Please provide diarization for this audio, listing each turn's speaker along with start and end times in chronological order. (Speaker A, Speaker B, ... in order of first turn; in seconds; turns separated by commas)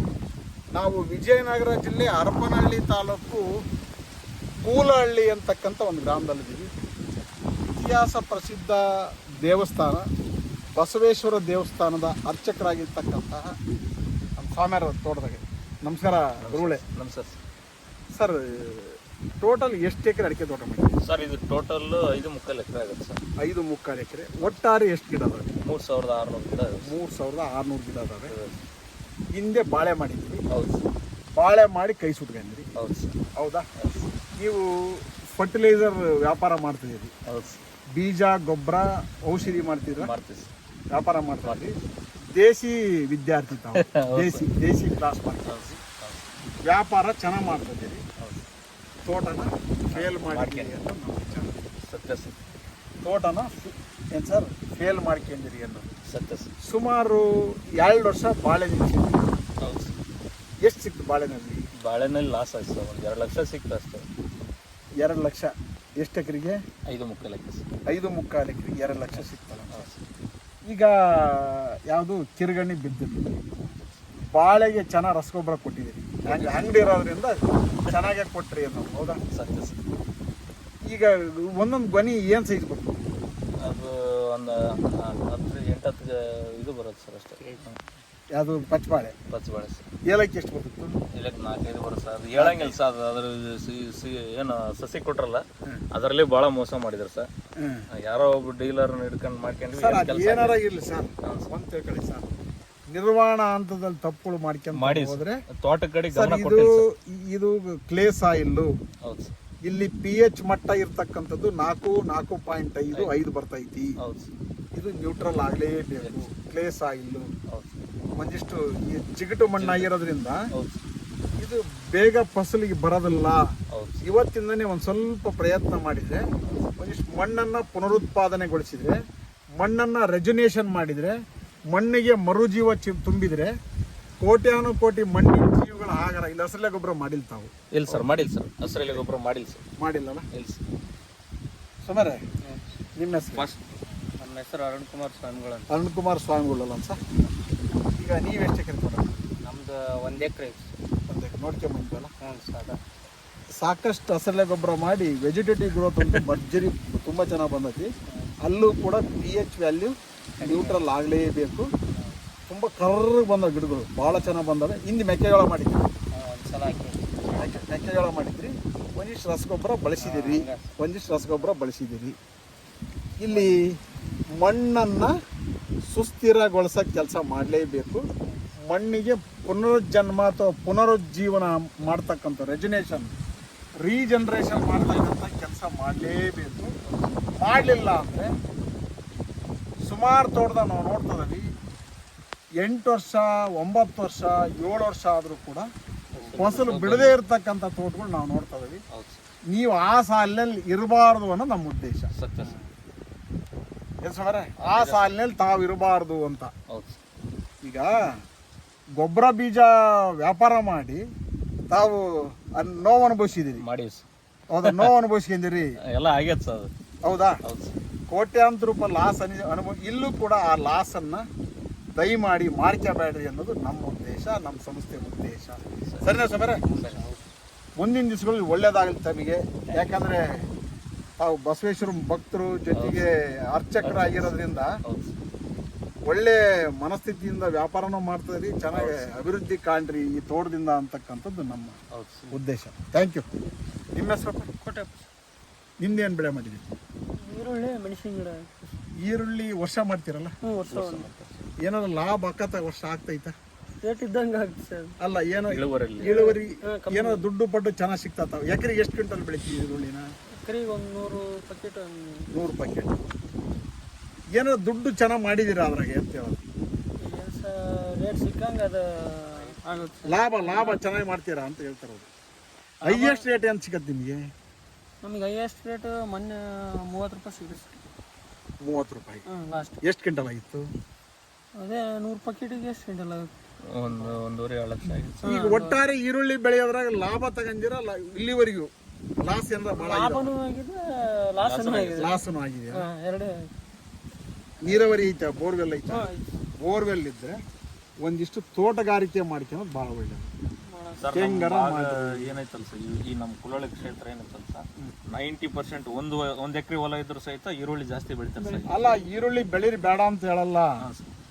Speaker A: 0.7-3.5, Speaker A: 4.6-6.7, Speaker A: 7.7-10.0, Speaker A: 10.8-13.6, Speaker A: 14.4-16.8, Speaker B: 16.4-17.4, Speaker A: 18.1-21.0, Speaker B: 21.0-23.2, Speaker A: 23.4-25.6, Speaker B: 25.6-26.9, Speaker A: 26.6-28.3, Speaker B: 28.3-28.6, Speaker A: 29.3-30.4, Speaker B: 30.5-30.8, Speaker A: 31.4-32.7, Speaker B: 32.8-33.2, Speaker A: 33.4-33.7, Speaker B: 33.8-34.1, Speaker A: 34.4-37.1, Speaker B: 37.3-37.6, Speaker A: 37.9-40.1, Speaker B: 40.0-40.5, Speaker A: 40.9-41.8, Speaker A: 42.3-45.8, Speaker B: 43.7-44.5, Speaker B: 45.5-46.3, Speaker A: 46.6-48.0, Speaker B: 48.2-48.4, Speaker A: 49.0-51.6, Speaker B: 49.9-50.7, Speaker B: 51.8-52.4, Speaker A: 53.0-55.9, Speaker B: 56.0-56.5, Speaker A: 56.6-59.3, Speaker B: 59.6-60.0, Speaker A: 60.6-61.7, Speaker B: 61.8-64.1, Speaker A: 65.0-66.6, Speaker B: 66.9-67.6, Speaker A: 67.9-69.8, Speaker B: 69.1-70.0, Speaker A: 70.7-73.4, Speaker A: 74.3-79.2, Speaker B: 76.2-76.9, Speaker B: 79.3-79.8, Speaker A: 80.9-83.0, Speaker B: 83.6-87.8, Speaker A: 88.3-89.2, Speaker B: 89.3-89.8, Speaker A: 90.1-91.0, Speaker B: 91.1-97.3, Speaker A: 92.4-92.8, Speaker A: 97.6-97.8, Speaker B: 97.9-100.6, Speaker A: 99.7-102.3, Speaker B: 101.2-101.5, Speaker A: 102.9-105.4, Speaker B: 104.7-106.8, Speaker A: 106.1-108.7, Speaker B: 109.0-109.3, Speaker A: 109.7-114.0, Speaker B: 114.0-114.3, Speaker A: 114.8-117.3, Speaker B: 116.0-116.3, Speaker B: 117.5-117.8, Speaker A: 118.2-120.5, Speaker B: 119.6-119.9, Speaker B: 120.5-120.8, Speaker A: 121.4-123.5, Speaker B: 123.7-124.1, Speaker A: 124.0-126.3, Speaker B: 126.4-126.7, Speaker A: 126.8-129.0, Speaker A: 129.6-131.2, Speaker A: 131.7-133.5, Speaker A: 134.2-138.1, Speaker B: 137.7-139.6, Speaker A: 138.7-139.0, Speaker A: 139.8-140.3, Speaker B: 140.3-140.6, Speaker A: 141.8-142.2, Speaker A: 143.0-143.5, Speaker B: 143.3-143.6, Speaker B: 144.2-145.7, Speaker A: 145.7-147.0, Speaker A: 147.9-149.2, Speaker B: 149.4-150.7, Speaker A: 151.1-152.1, Speaker B: 152.2-152.8, Speaker A: 153.6-157.9, Speaker B: 156.0-156.3, Speaker A: 158.4-161.7, Speaker B: 160.4-160.8, Speaker A: 162.5-165.9, Speaker B: 166.1-167.6, Speaker A: 167.3-172.2, Speaker B: 170.0-170.7, Speaker A: 173.2-173.8, Speaker A: 174.4-175.1, Speaker A: 175.9-178.1, Speaker A: 178.7-183.1, Speaker A: 183.8-186.7, Speaker B: 184.4-185.2, Speaker B: 186.9-187.2, Speaker A: 187.4-188.3, Speaker A: 189.8-191.5, Speaker A: 192.6-195.7, Speaker B: 196.2-197.2, Speaker A: 196.4-198.8, Speaker B: 198.9-199.2, Speaker A: 199.5-202.1, Speaker B: 202.2-202.6, Speaker A: 204.0-206.5, Speaker B: 204.6-205.1, Speaker B: 206.7-207.0, Speaker A: 207.6-208.2, Speaker A: 209.0-211.0, Speaker A: 211.7-213.7, Speaker B: 213.6-214.0, Speaker A: 214.5-215.8, Speaker B: 214.7-214.9, Speaker B: 215.9-216.7, Speaker A: 217.0-217.4, Speaker B: 217.4-217.8, Speaker A: 218.1-221.3, Speaker A: 222.0-226.6, Speaker B: 226.7-227.2, Speaker A: 227.8-230.5, Speaker A: 231.2-234.8, Speaker B: 232.7-233.1, Speaker B: 233.8-235.2, Speaker A: 236.1-241.8, Speaker B: 238.7-239.1, Speaker B: 241.9-242.3, Speaker A: 242.3-243.2, Speaker A: 243.9-244.5, Speaker C: 244.6-245.0, Speaker A: 245.8-246.7, Speaker C: 247.2-248.5, Speaker A: 249.0-250.3, Speaker C: 250.4-251.1, Speaker B: 250.7-251.5, Speaker A: 251.6-253.3, Speaker C: 253.8-254.9, Speaker A: 255.0-260.1, Speaker B: 255.5-256.1, Speaker C: 256.0-257.3, Speaker C: 260.4-262.3, Speaker A: 262.3-263.1, Speaker A: 264.3-266.5, Speaker C: 267.0-270.8, Speaker A: 270.1-272.1, Speaker C: 272.8-273.2, Speaker A: 272.9-274.2, Speaker C: 275.0-277.8, Speaker A: 278.6-279.2, Speaker C: 279.3-279.8, Speaker A: 279.8-280.7, Speaker C: 281.6-283.3, Speaker B: 283.7-285.2, Speaker A: 284.9-288.7, Speaker C: 285.2-285.8, Speaker A: 289.2-290.3, Speaker C: 289.7-292.2, Speaker B: 291.4-292.1, Speaker A: 292.0-292.9, Speaker C: 292.7-293.5, Speaker A: 294.6-296.1, Speaker C: 295.9-296.2, Speaker A: 296.6-297.4, Speaker A: 298.0-300.3, Speaker C: 300.7-301.1, Speaker B: 301.0-308.8, Speaker A: 301.1-302.3, Speaker C: 308.4-309.0, Speaker A: 308.7-310.8, Speaker B: 310.8-311.1